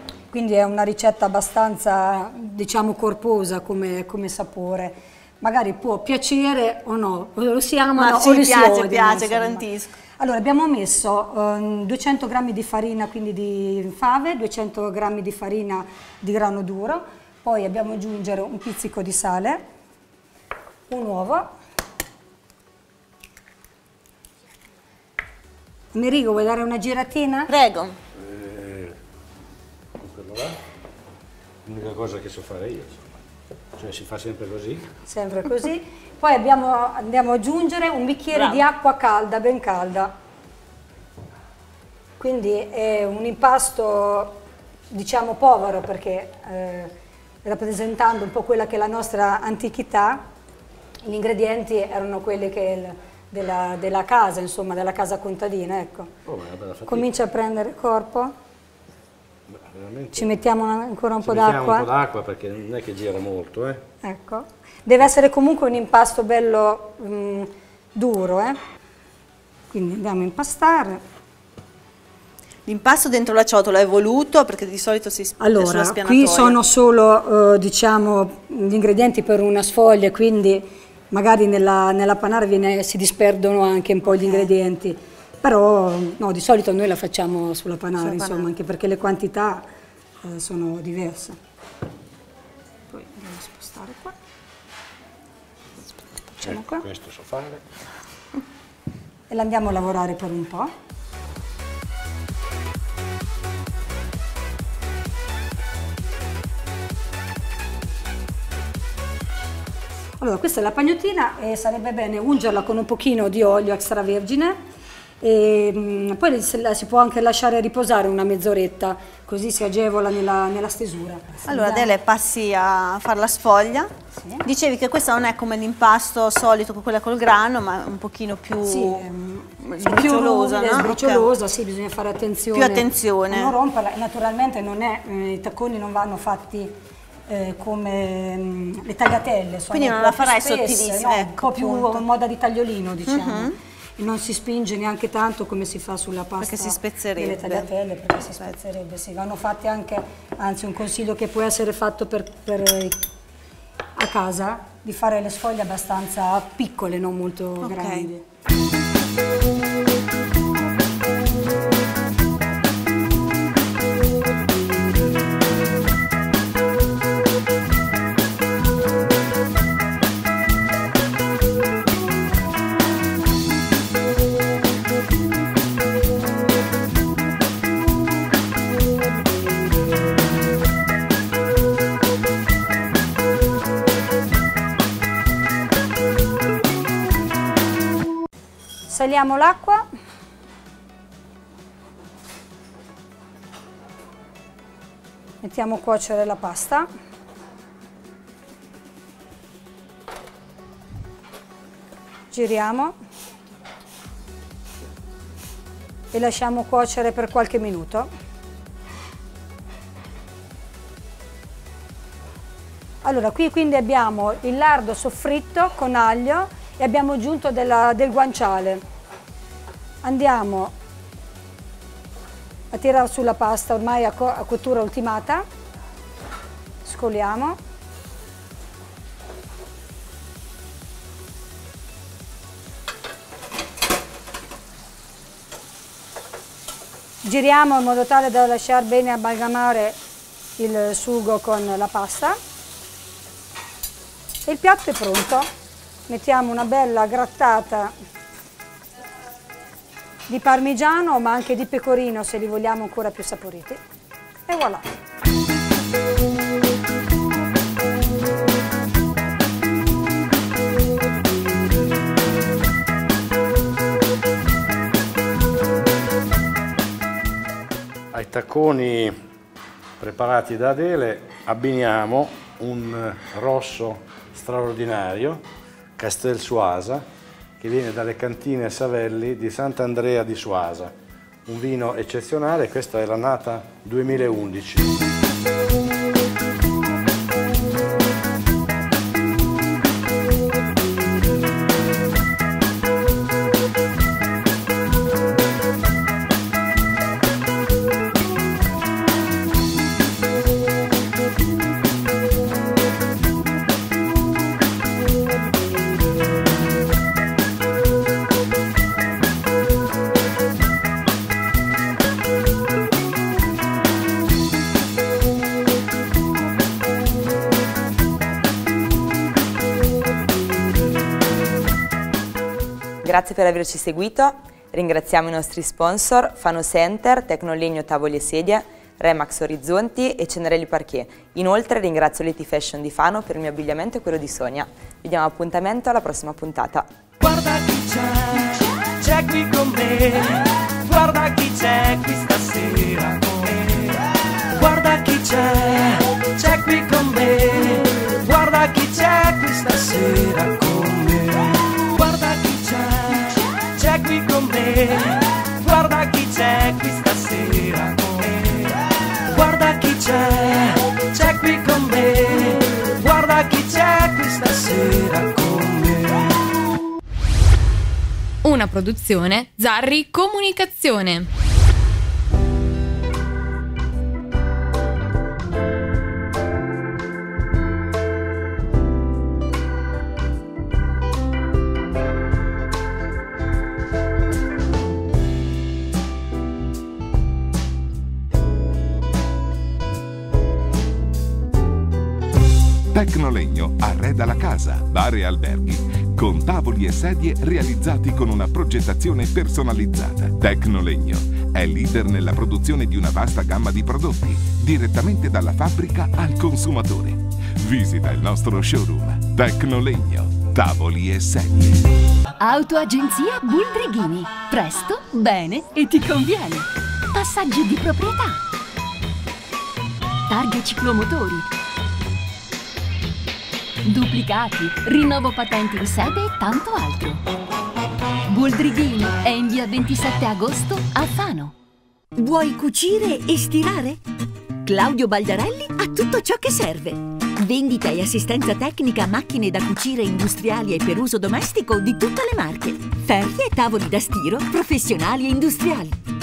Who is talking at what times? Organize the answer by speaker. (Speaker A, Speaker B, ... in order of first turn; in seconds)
Speaker A: 0.3-9.6, 10.2-19.6, 20.9-21.5, 25.9-27.5, 35.1-40.1, 42.2-46.9, 47.4-50.3, 51.0-56.1, 56.9-58.3, 60.1-61.9, 64.0-68.6, 69.7-71.0, 75.4-89.7, 90.2-91.4, 92.9-94.2, 96.3-96.8, 99.3-100.7, 110.2-114.6, 115.2-121.9, 124.2-124.4, 128.6-136.8, 137.3-153.0, 153.9-158.2, 188.9-189.8, 195.4-196.9, 202.3-202.9, 206.1-208.1, 213.0-218.8, 220.0-220.7, 222.7-225.4, 226.8-227.6, 237.2-239.9, 240.6-242.4, 244.4-245.5, 246.1-247.9, 250.3-253.8, 254.5-254.8
Speaker B: 8.0-9.9, 27.5-27.9, 38.4-38.6, 72.7-76.6, 84.1-84.5, 88.0-88.5, 121.5-123.9, 124.4-129.1, 129.6-131.3, 132.5-133.5, 139.7-142.0, 143.1-143.5, 146.4-147.7, 157.6-158.1
Speaker C: 28.1-29.0, 30.0-30.6, 31.6-33.2, 33.7-34.9, 56.2-57.2, 59.5-60.4, 61.2-63.8, 96.4-97.7, 268.1-269.1, 270.0-275.4, 276.0-277.0, 277.6-280.9, 281.4-284.9
Speaker D: 323.0-336.9
Speaker E: 337.2-366.4
Speaker F: 368.4-371.3
Speaker G: 392.9-411.8
Speaker H: 412.4-418.4, 420.3-421.5, 423.8-427.2, 428.3-431.5
Speaker I: 432.1-434.0, 434.6-446.0